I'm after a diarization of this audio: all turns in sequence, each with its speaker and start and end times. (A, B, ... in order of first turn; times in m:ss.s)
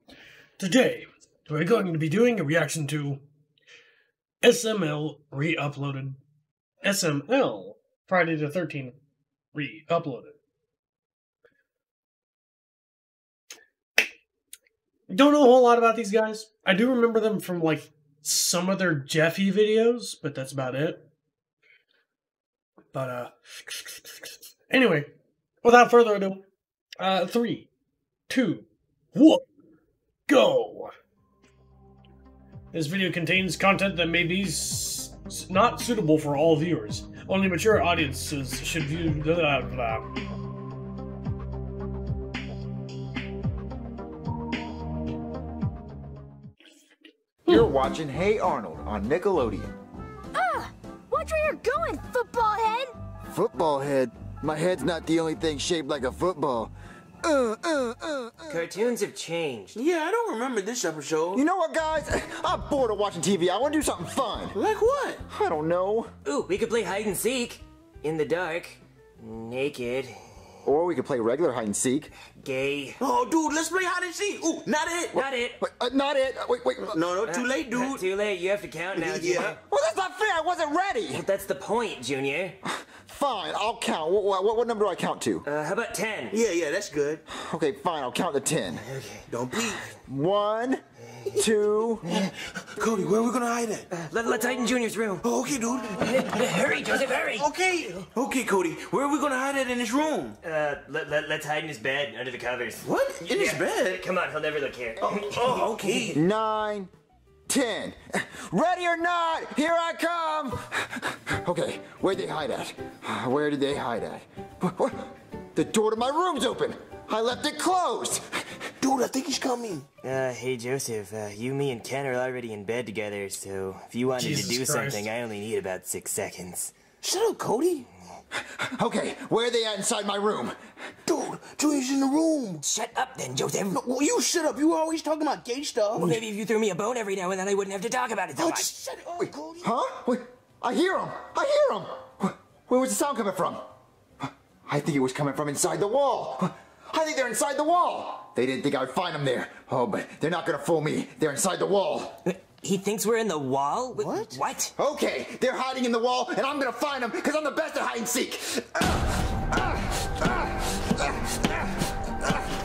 0:00.6-0:03.2 A
0:04.4-0:06.2 A
0:06.8-0:09.0 A
0:09.5-0:10.4 A
0:15.1-0:21.0 A
0:22.9-0:25.1 A
0:25.6-0:26.4 A
0:27.0-0:27.7 A
0:28.3-0:29.4 A
0:30.3-0:30.9 A
0:32.7-0:40.0 A
0:47.5-0:49.7 B
0:50.4-0:52.9 C
0:53.3-0:56.7 B
0:57.2-0:58.7 B
0:58.5-0:59.8 D
0:59.8-1:01.4 E
1:01.3-1:04.6 B
1:04.6-1:05.2 E
1:05.3-1:06.1 B
1:06.2-1:10.2 D
1:10.6-1:12.1 B
1:12.4-1:13.0 D
1:13.0-1:15.3 E
1:15.1-1:15.6 D
1:15.6-1:17.0 B
1:16.8-1:18.1 E
1:17.2-1:19.6 D
1:18.9-1:19.6 E
1:19.2-1:21.2 B
1:21.1-1:22.6 D
1:22.6-1:25.5 B
1:25.4-1:26.4 D
1:26.3-1:27.2 E
1:27.3-1:28.8 B
1:28.8-1:29.3 D
1:29.3-1:29.8 E
1:30.0-1:30.8 B
1:31.4-1:32.2 B
1:32.0-1:33.9 E
1:33.9-1:35.3 D
1:35.2-1:40.4 E
1:36.0-1:37.5 D
1:40.4-1:46.1 D
1:42.8-1:44.0 E
1:45.0-1:46.2 E
1:46.1-1:46.9 B
1:47.5-1:58.2 B
1:58.8-1:59.9 E
2:00.0-2:06.7 D
2:04.2-2:05.1 A
2:07.0-2:07.9 E
2:08.8-2:10.6 B
2:11.1-2:12.6 E
2:12.6-2:13.8 D
2:13.7-2:16.2 E
2:16.0-2:18.7 D
2:18.4-2:19.7 E
2:19.2-2:23.6 B
2:24.7-2:32.2 B
2:32.2-2:34.7 D
2:33.9-2:34.4 E
2:34.8-2:41.7 B